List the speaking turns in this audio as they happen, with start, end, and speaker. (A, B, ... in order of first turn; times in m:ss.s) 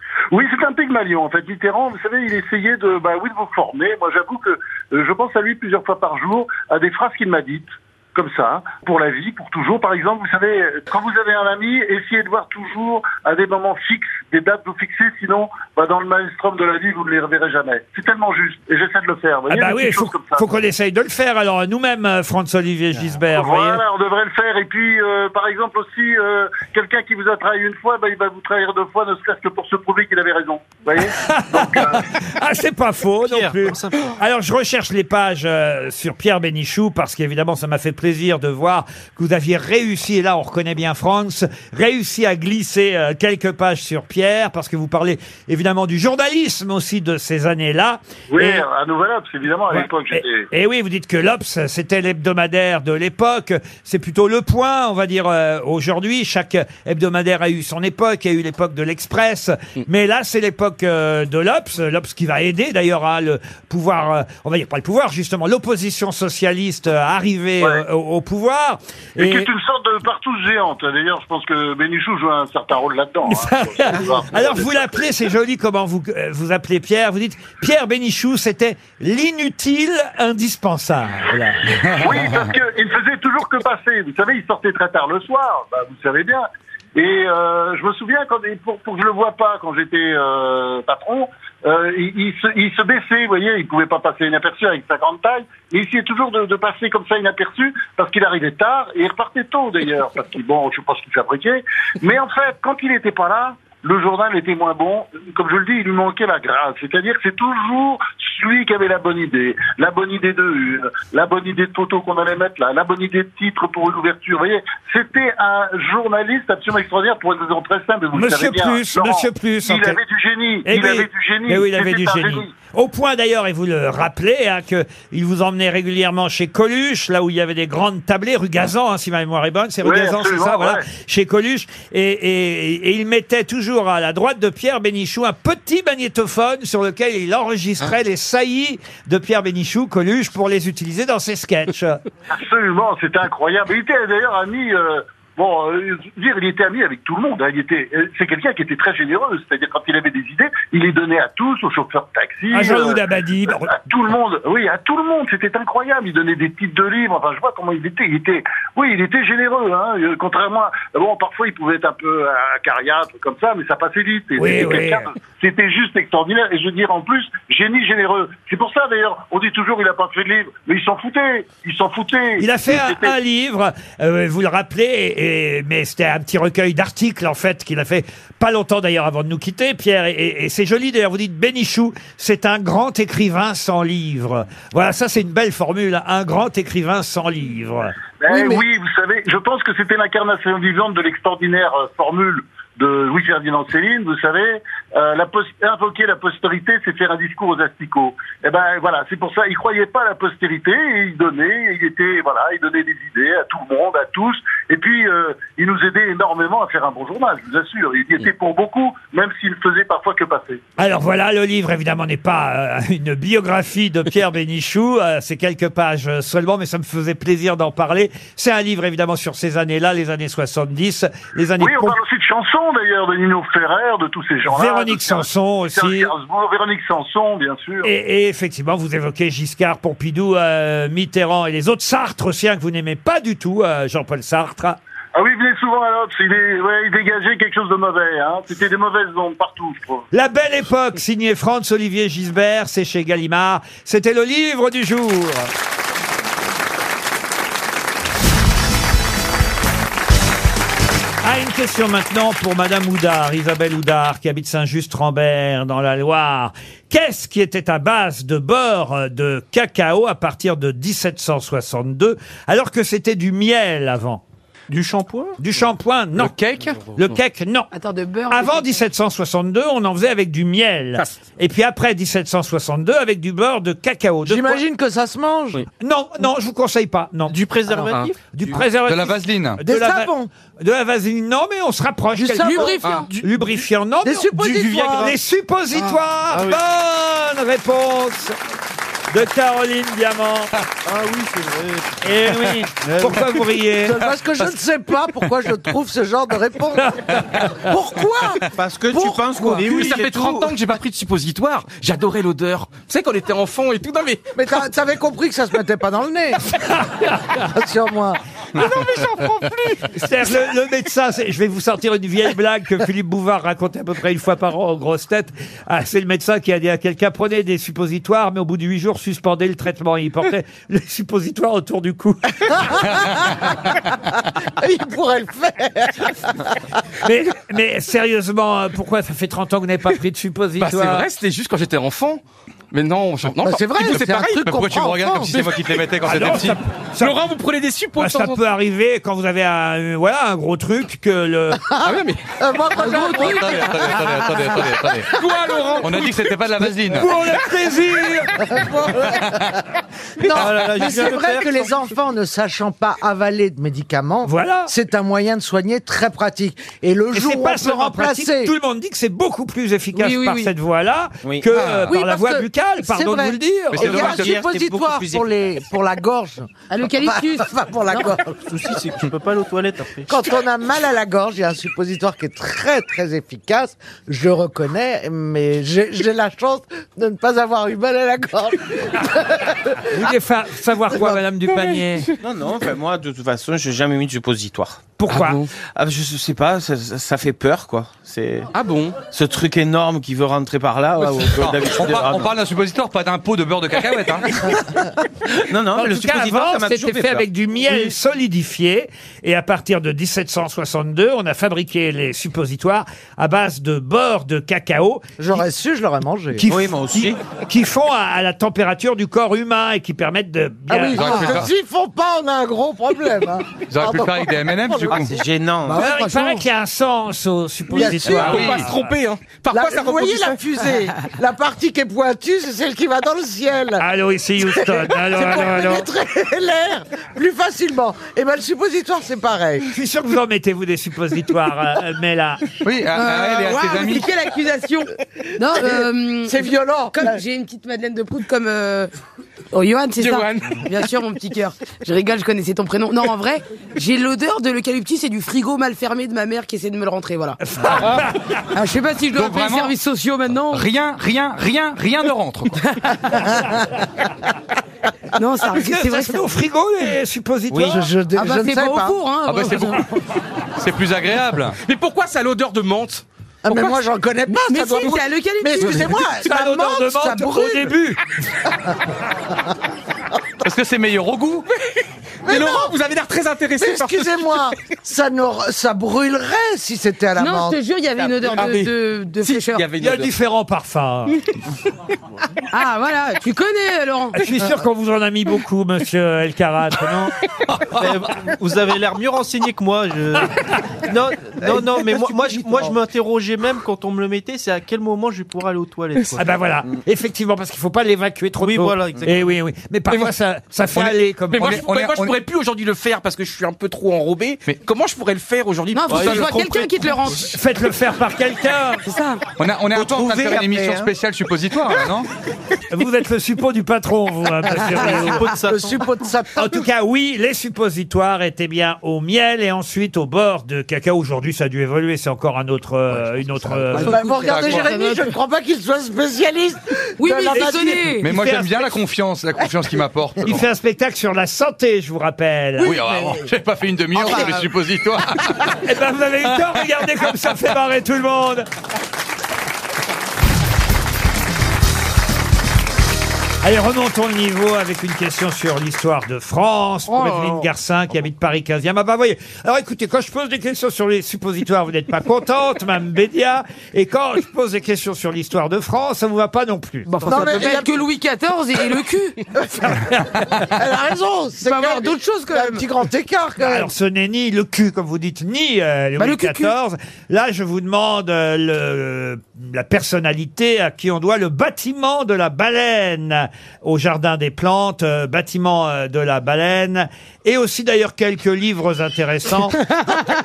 0:00.3-0:20.4 A
0:19.5-0:23.8 B
0:23.3-0:32.0 A
0:31.0-0:48.6 B
0:33.2-0:34.2 C
0:48.3-0:50.5 A
0:49.7-1:09.5 B
1:09.2-1:15.0 A
1:13.3-1:21.9 B
1:22.0-2:02.5 A
1:58.1-2:00.0 B
2:00.6-2:22.0 B
2:09.8-2:10.8 A
2:22.3-2:33.0 A
2:32.5-2:33.8 B
2:33.7-2:53.1 A
2:44.4-2:45.1 B
2:52.4-3:07.9 B
3:08.2-3:30.6 A
3:08.3-3:08.6 D
3:30.8-3:42.0 B
3:41.6-3:47.9 A
3:44.5-3:46.1 B
3:47.8-3:54.8 B
3:55.1-4:00.0 A
4:00.1-4:05.5 B
4:11.2-4:24.2 B
4:24.7-4:25.4 C
4:25.4-4:26.4 B
4:26.2-4:27.0 E
4:26.9-4:27.7 B
4:27.7-4:28.7 F
4:28.3-4:34.6 B
4:34.2-4:35.6 D
4:35.8-4:37.4 B
4:37.3-4:38.6 C
4:38.3-4:48.4 B
4:38.8-4:39.6 E
4:39.6-4:40.3 D
4:42.4-4:43.1 F
4:42.8-4:43.1 G
4:43.1-4:43.5 C
4:44.0-4:45.1 D
4:46.3-4:46.6 C
4:49.1-4:50.5 B
4:50.8-4:52.3 C
4:52.0-4:54.0 B
4:52.8-4:53.4 C
4:53.8-4:59.2 D
4:56.8-4:57.7 B
4:58.5-5:00.5 H
4:59.0-5:04.2 G
4:59.4-5:00.3 C
5:04.4-5:06.4 D
5:06.6-5:07.4 B
5:07.5-5:08.2 D
5:09.9-5:22.9 B
5:22.5-5:23.3 D
5:24.6-5:26.5 D
5:27.0-5:31.1 B
5:30.6-5:38.4 G
5:33.4-5:35.3 D
5:33.9-5:36.6 E
5:36.0-5:37.2 B
5:38.0-5:41.6 B
5:41.6-5:43.5 D
5:41.8-5:42.2 G
5:42.7-5:43.5 G
5:42.7-5:44.0 F
5:43.2-5:45.1 E
5:45.0-5:46.4 G
5:45.2-5:45.6 D
5:45.8-5:47.1 E
5:46.9-5:48.4 B
5:48.4-5:49.2 D
5:50.2-5:58.5 D
5:50.2-5:51.8 C
5:54.2-5:54.7 B
5:57.1-6:04.1 B
5:59.9-6:00.5 F
6:01.2-6:01.6 H
6:01.9-6:02.4 F
6:02.8-6:06.5 D
6:03.7-6:04.4 E
6:04.0-6:05.2 H
6:06.7-6:08.2 F
6:07.0-6:08.4 D
6:08.5-6:10.1 C
6:10.1-6:19.7 D
6:19.9-6:22.1 B
6:22.2-6:24.8 H
6:25.0-6:25.4 B
6:25.1-6:25.5 G
6:25.8-6:28.5 H
6:28.5-6:29.0 G
6:29.1-6:32.3 H
6:31.0-6:34.4 E
6:35.4-6:37.2 H
6:35.7-6:45.4 B
6:45.2-6:46.4 D
6:46.4-6:51.5 B
6:46.4-6:47.2 H
6:50.7-6:55.2 D
6:50.9-6:51.5 E
6:53.7-6:55.1 E
6:54.9-6:55.8 H
6:55.7-6:56.4 F
6:55.7-6:58.8 B
6:57.7-6:58.4 D
6:57.8-7:00.8 G
6:58.1-6:58.7 E
6:59.5-7:03.8 D
7:03.8-7:05.9 B
7:04.4-7:09.7 D
7:09.7-7:12.4 B
7:12.6-7:14.1 E
7:12.9-7:18.9 F
7:15.6-7:17.2 D
7:19.5-7:27.4 F
7:20.0-7:20.6 G
7:27.4-7:28.2 B
7:28.5-7:30.6 F
7:29.1-7:29.7 E
7:30.5-7:32.5 E
7:32.6-7:33.2 F
7:33.2-7:33.8 D
7:35.2-7:36.3 F
7:35.4-7:37.8 B
7:37.5-7:37.8 H
7:37.6-7:39.0 D
7:38.1-7:39.9 F
7:39.3-7:39.8 E
7:40.6-7:41.6 E
7:41.6-7:43.8 G
7:43.4-7:47.7 D
7:44.4-7:46.0 F
7:46.2-7:48.0 B
7:50.4-7:51.5 E
7:52.2-7:52.8 D
7:52.2-7:54.4 G
7:53.6-7:57.6 D
7:57.2-7:59.6 F
7:58.1-7:58.7 G
7:59.2-8:00.1 G
7:59.8-8:01.2 B
8:02.5-8:04.2 F
8:04.1-8:07.1 B
8:07.8-8:16.3 C
8:16.2-8:21.6 B
8:18.4-8:19.3 C
8:20.7-8:22.2 E
8:21.3-8:27.2 G
8:25.7-8:27.3 F
8:25.9-8:26.3 C
8:27.2-8:28.8 B
8:28.8-8:29.2 F
8:29.4-8:32.1 E
8:29.8-8:30.8 H
8:32.7-8:35.2 B
8:34.5-8:35.9 C
8:34.8-8:36.6 D
8:36.4-8:44.0 B
8:43.7-8:45.1 F
8:43.7-8:47.9 D
8:44.2-8:44.7 E
8:47.0-8:48.1 F
8:47.4-8:48.7 B
8:48.0-8:50.4 E
8:50.2-8:52.8 B
8:52.6-8:55.5 E
8:52.8-8:53.3 D
8:54.0-8:54.4 D
8:55.6-8:58.5 B
9:03.4-9:16.9 B
9:16.9-9:19.2 F
9:17.1-9:17.8 D
9:19.3-9:19.8 D
9:19.6-9:20.2 B
9:20.4-9:23.7 D
9:21.4-9:22.6 F
9:23.4-9:39.6 B
9:26.0-9:26.5 F